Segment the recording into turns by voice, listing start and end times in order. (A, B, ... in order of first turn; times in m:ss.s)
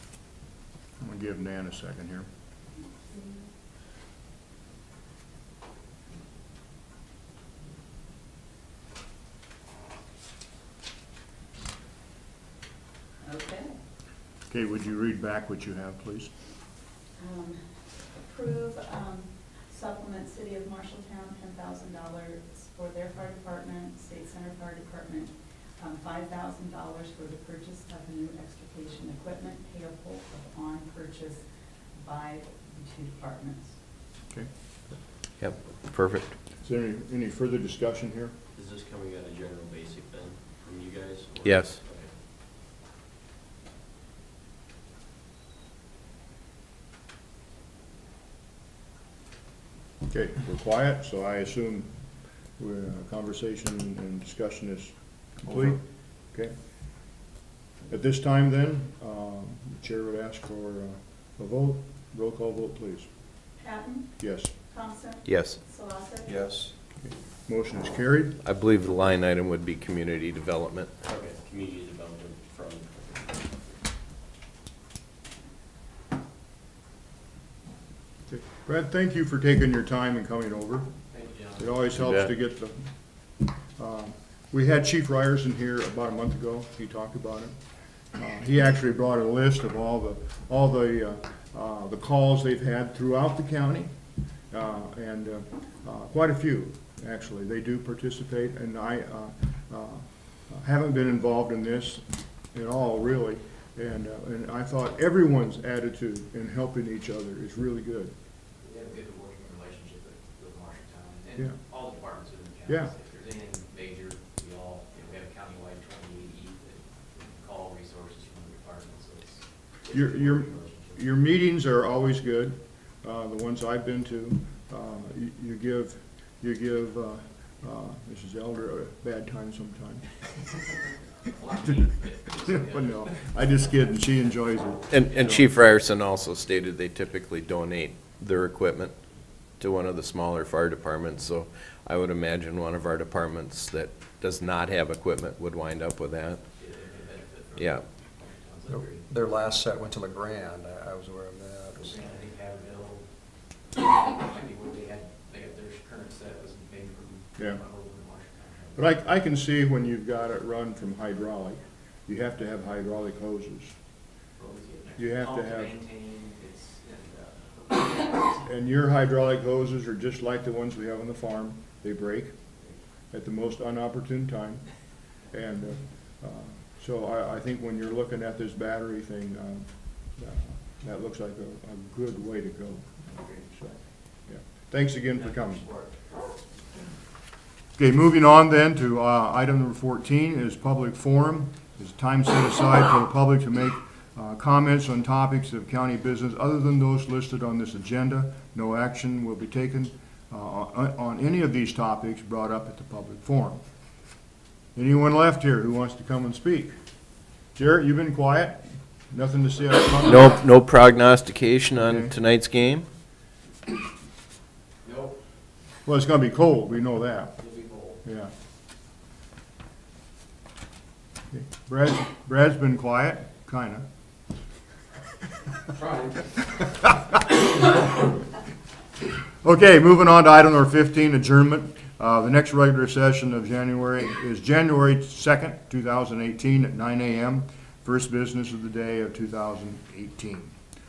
0:01.0-0:02.2 A
0:03.0-0:03.5 B
0:13.2-0:13.8 B
0:14.5-0:16.3 A
0:17.2-0:33.8 B
0:35.4-0:36.4 C
0:36.6-0:38.3 A
0:38.6-0:42.1 D
0:41.4-0:41.8 C
0:50.1-0:51.9 A
0:52.6-0:55.8 A
0:57.9-1:03.1 A
1:03.6-1:06.6 B
1:04.2-1:04.5 A
1:05.2-1:05.6 C
1:06.4-1:06.7 E
1:07.0-1:08.4 A
1:08.4-1:11.0 C
1:11.0-1:13.2 D
1:18.3-1:20.9 A
1:21.1-1:21.6 F
1:21.6-1:22.9 A
1:22.0-1:22.3 C
1:23.8-1:27.6 A
1:28.1-1:33.9 A
1:34.5-1:48.1 A
1:48.6-2:01.0 F
1:52.7-1:52.9 A
1:59.9-2:10.1 A
2:11.2-2:13.6 F
2:12.5-2:15.4 A
2:14.9-2:19.0 C
2:19.6-2:26.4 C
2:26.6-2:29.1 F
2:27.6-2:27.8 C
2:28.7-2:32.1 E
2:31.8-2:33.1 F
2:33.7-2:38.8 F
2:37.4-2:37.6 A
2:38.8-2:43.8 A
2:44.4-2:48.5 F
2:45.0-2:45.8 A
2:48.4-2:52.3 A
2:53.1-2:54.8 A
2:55.3-3:03.0 A
3:03.1-3:03.7 F
3:04.3-3:05.7 A
3:05.2-3:05.9 F
3:07.8-3:23.6 A
3:24.8-3:26.8 A
3:27.5-3:30.4 A
3:30.0-3:32.9 C
3:31.8-3:32.1 A
3:34.8-3:35.2 F
3:35.8-3:37.4 A
3:37.4-3:38.0 F
3:38.0-3:38.3 A
3:41.3-3:43.8 A
3:45.7-3:46.2 F
3:49.4-4:00.5 A